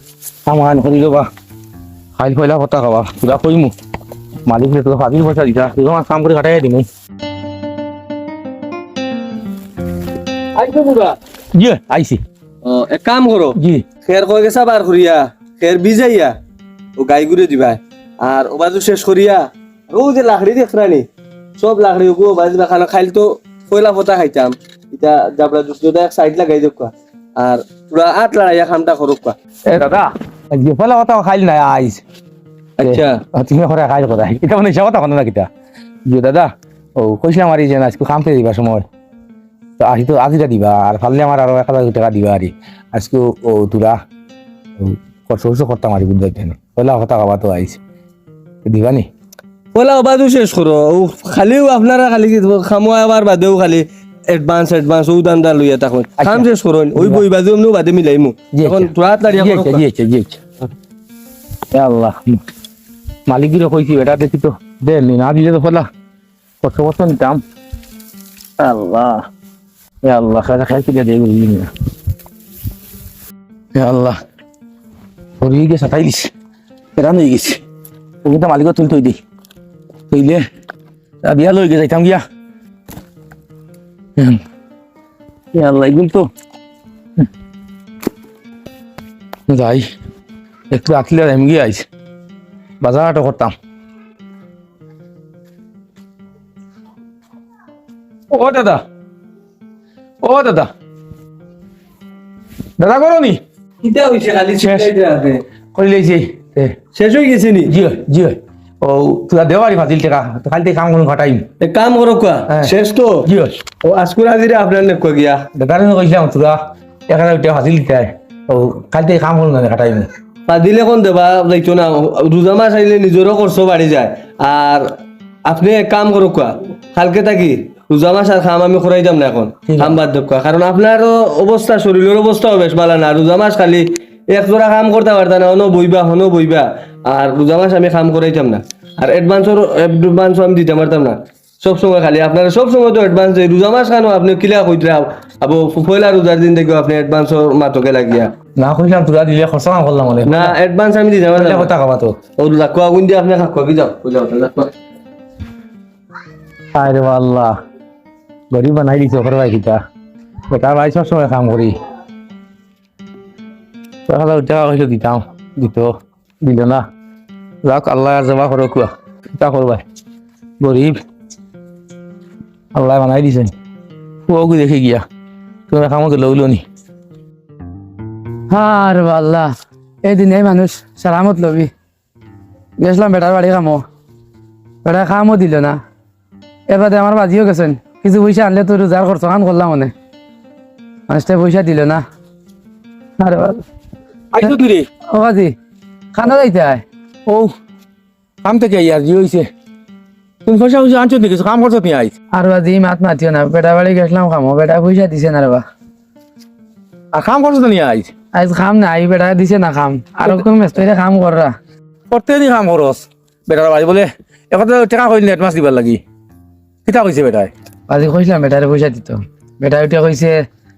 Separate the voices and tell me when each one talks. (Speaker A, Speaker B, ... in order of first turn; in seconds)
Speaker A: 0.5-1.3, 2.2-3.7, 4.5-6.9, 11.6-12.2, 13.6-13.8, 29.7-32.0, 32.8-35.5, 36.1-38.9, 39.8-44.0, 44.8-47.8, 48.6-49.1, 56.2-57.3, 58.5-60.4, 61.7-62.4, 63.3-65.9, 66.6-67.4, 68.6-69.3, 70.0-71.7, 73.7-74.2, 75.4-76.3, 77.0-77.6, 78.2-79.2, 80.1-80.5, 81.2-82.2, 85.5-86.3, 89.5-89.9, 90.7-91.9, 92.8-93.5, 98.3-98.8, 100.2-100.7, 102.8-103.4, 104.6-104.9, 105.8-106.8, 107.7-111.5, 113.2-113.6, 115.5-120.1, 129.7-130.0, 148.6-150.6, 151.3-152.2, 156.7-157.6, 158.5-159.8, 160.5-161.8, 164.1-166.9, 167.6-169.8, 170.6-171.0, 172.7-173.5, 174.3-175.1, 175.7-176.6, 194.3-194.9, 197.3-197.5, 198.4-199.5, 200.5-202.1, 207.1-208.1, 212.1-216.0, 216.9-217.5
Speaker B: 10.6-11.2, 12.7-16.4, 17.0-21.1, 21.6-29.4, 32.8-33.2, 49.7-59.8, 103.8-105.4, 107.0-107.7, 111.6-113.2, 113.8-115.5, 120.5-124.9, 125.5-148.3, 150.3-151.7, 152.4-154.7
Speaker C: 178.5-179.5, 180.0-181.7, 182.8-183.8, 184.8-185.8, 186.7-189.9, 191.1-192.0, 193.2-193.6, 195.1-195.5, 196.1-196.8, 202.3-205.7, 208.3-211.6, 217.9-220.5